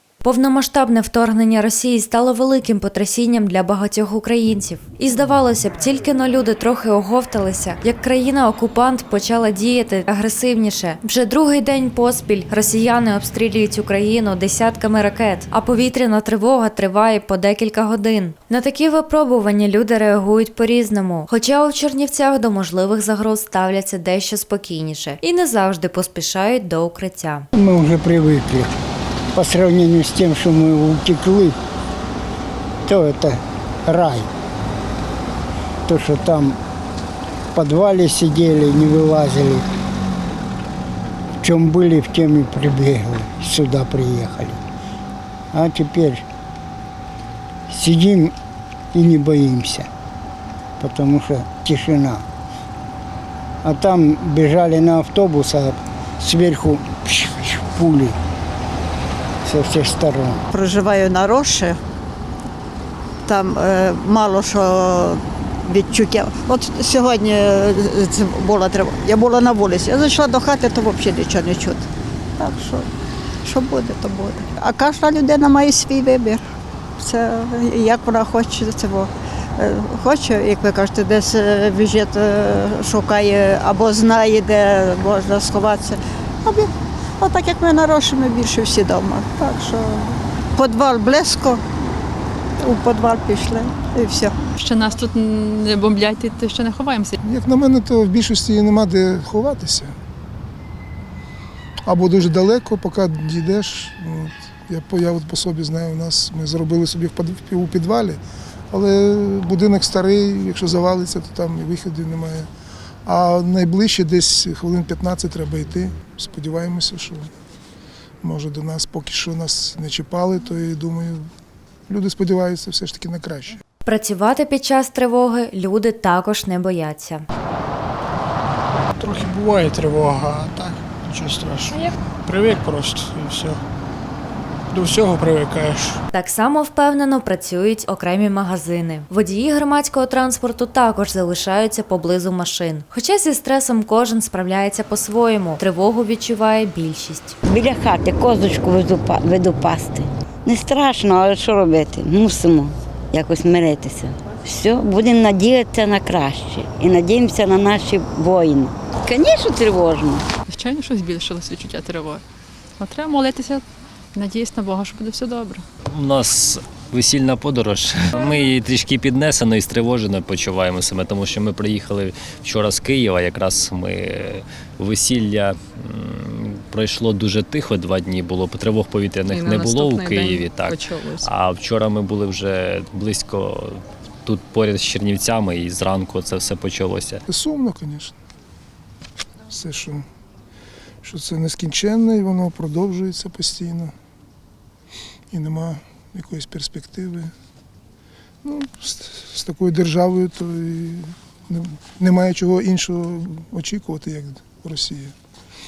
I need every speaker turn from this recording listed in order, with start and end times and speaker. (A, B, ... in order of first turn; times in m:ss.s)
0:00.2-0:27.5 A
0:27.5-0:28.7 B
0:29.3-0:31.6 B
0:32.9-0:34.3 B
0:35.8-0:36.6 B
0:37.5-0:39.6 B
0:41.4-0:44.6 B
0:45.5-0:46.2 B
0:47.7-0:48.3 B
0:48.9-0:49.9 B
0:50.8-0:52.2 B
0:53.6-0:58.2 B
0:59.4-1:00.4 B
1:00.5-1:01.8 C
1:03.2-1:12.9 C
1:13.4-1:16.4 C
1:17.0-1:31.6 C
1:32.6-1:34.3 C
1:34.6-1:37.2 D
1:37.2-1:39.9 E
1:41.8-1:52.5 E
1:53.0-1:57.3 E
1:58.2-2:01.3 E
2:01.9-2:03.6 E
2:03.8-2:07.2 A
2:09.0-2:13.6 F
2:14.7-2:16.0 F
2:16.1-2:27.4 A
2:27.4-2:40.2 G
2:40.5-2:42.2 D
2:42.8-2:43.6 D
2:44.1-2:45.6 D
2:45.8-3:07.2 H
2:59.3-3:01.3 D
3:07.3-3:08.1 E
3:09.5-3:10.0 E
3:11.0-3:13.9 E
3:15.3-3:17.3 E
3:18.4-3:25.1 E